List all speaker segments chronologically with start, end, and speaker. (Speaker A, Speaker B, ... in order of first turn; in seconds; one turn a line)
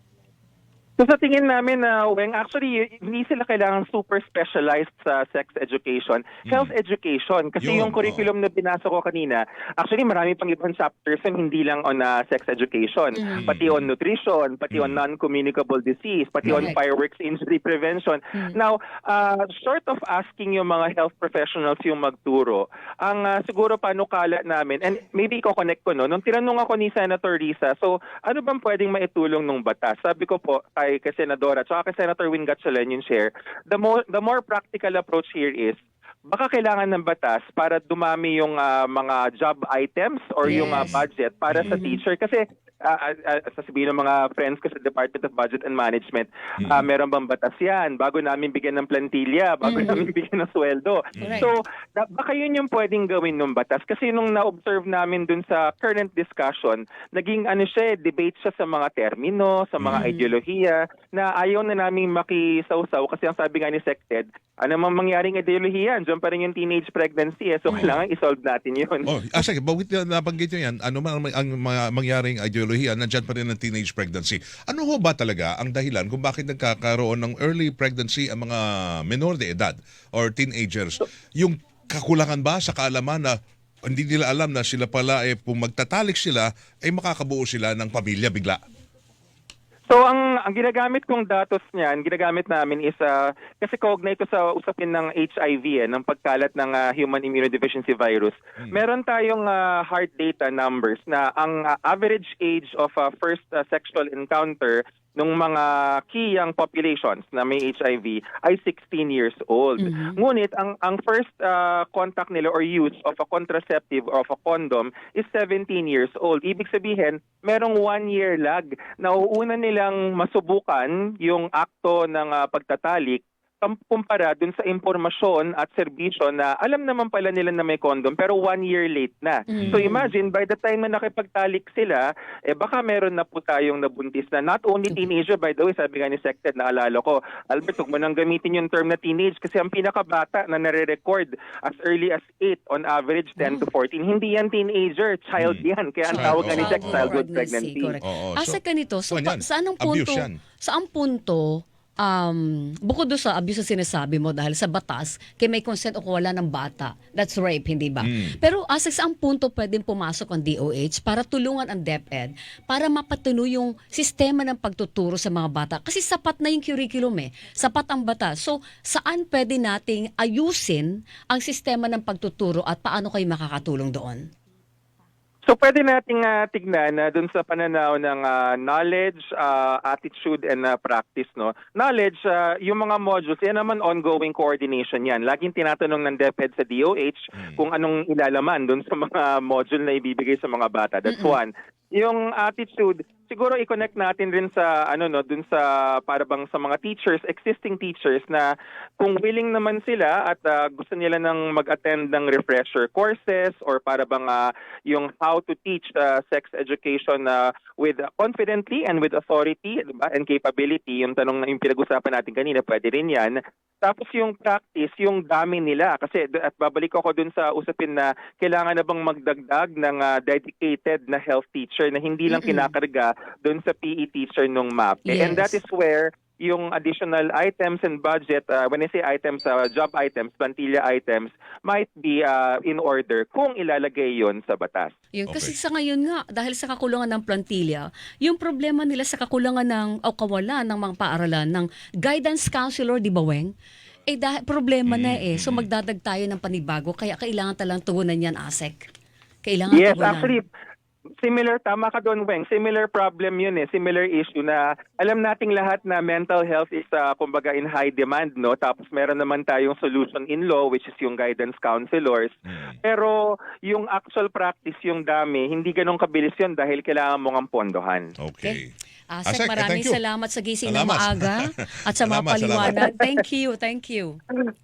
Speaker A: 1.0-69.4
Speaker B: 6.5-6.7
Speaker B: 7.6-8.3
Speaker C: 13.2-13.5
Speaker B: 13.3-13.9
Speaker B: 14.7-15.0
Speaker C: 16.4-16.8
Speaker C: 40.4-40.9
Speaker B: 40.5-41.0
Speaker C: 41.6-42.0
Speaker B: 46.6-46.9
Speaker C: 49.6-50.1
Speaker B: 51.2-51.5
Speaker C: 51.2-51.5
Speaker B: 59.8-60.0
Speaker C: 59.9-60.3
Speaker B: 67.7-68.0
Speaker B: 69.1-83.3
Speaker B: 83.9-88.6
Speaker A: 89.9-147.9
Speaker C: 109.8-110.2
Speaker C: 129.5-130.1
Speaker B: 129.6-129.8
Speaker C: 143.4-143.7
Speaker B: 145.4-147.1
Speaker C: 146.1-174.3
Speaker B: 148.0-148.6
Speaker B: 149.1-150.4
Speaker B: 158.0-158.4
Speaker A: 175.5-198.5
Speaker B: 187.4-187.6
Speaker C: 191.1-191.4
Speaker A: 199.0-234.9
Speaker C: 222.3-222.7
Speaker C: 225.1-225.5
Speaker C: 235.1-243.5
Speaker B: 235.3-235.6
Speaker C: 244.1-248.9
Speaker B: 244.9-245.7
Speaker C: 249.4-250.3
Speaker A: 249.7-250.5
Speaker A: 251.2-268.1
Speaker B: 262.5-262.7
Speaker B: 268.2-268.7
Speaker C: 268.4-274.2
Speaker B: 269.3-270.0
Speaker B: 270.6-272.8